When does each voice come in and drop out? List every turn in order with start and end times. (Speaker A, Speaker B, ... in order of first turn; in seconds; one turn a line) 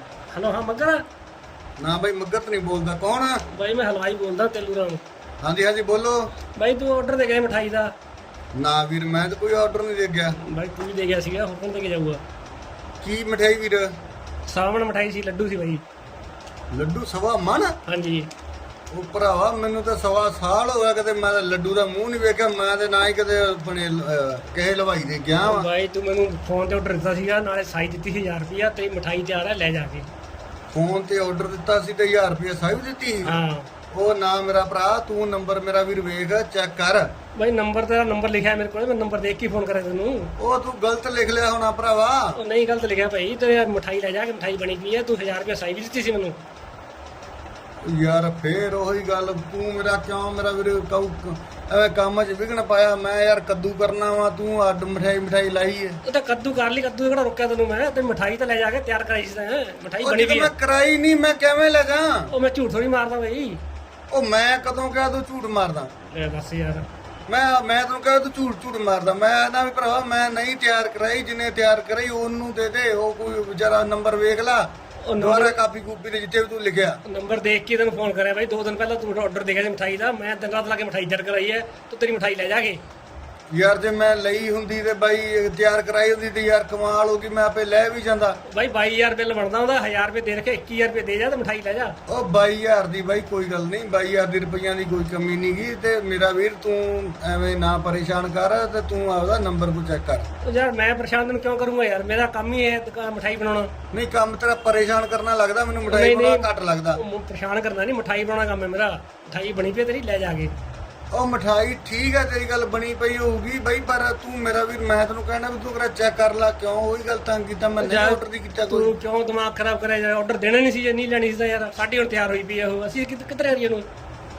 Speaker A: 0.3-1.0
Speaker B: 1.8-3.4
Speaker A: 3.5-5.0
Speaker B: 5.4-6.2
Speaker A: 6.6-7.9
Speaker B: 8.6-10.4
Speaker A: 10.4-12.2
Speaker B: 13.0-13.9
Speaker A: 14.5-15.8
Speaker B: 16.7-17.8
Speaker A: 17.9-18.3
Speaker B: 18.9-25.7
Speaker A: 25.4-30.1
Speaker B: 30.7-33.3
Speaker A: 33.2-33.7
Speaker B: 33.9-37.1
Speaker A: 37.4-40.3
Speaker B: 40.4-42.4
Speaker A: 42.3-46.4
Speaker B: 47.9-56.0
Speaker A: 56.0-60.5
Speaker B: 60.0-62.3
Speaker A: 62.3-63.6
Speaker B: 64.1-65.9
Speaker A: 66.1-66.8
Speaker B: 67.3-77.0
Speaker A: 75.0-75.6
Speaker A: 77.0-82.8
Speaker B: 83.5-88.4
Speaker A: 88.5-91.9
Speaker B: 92.1-100.3
Speaker A: 100.4-103.7
Speaker B: 103.9-107.0
Speaker A: 105.9-110.5
Speaker B: 111.1-118.9
Speaker A: 117.8-123.8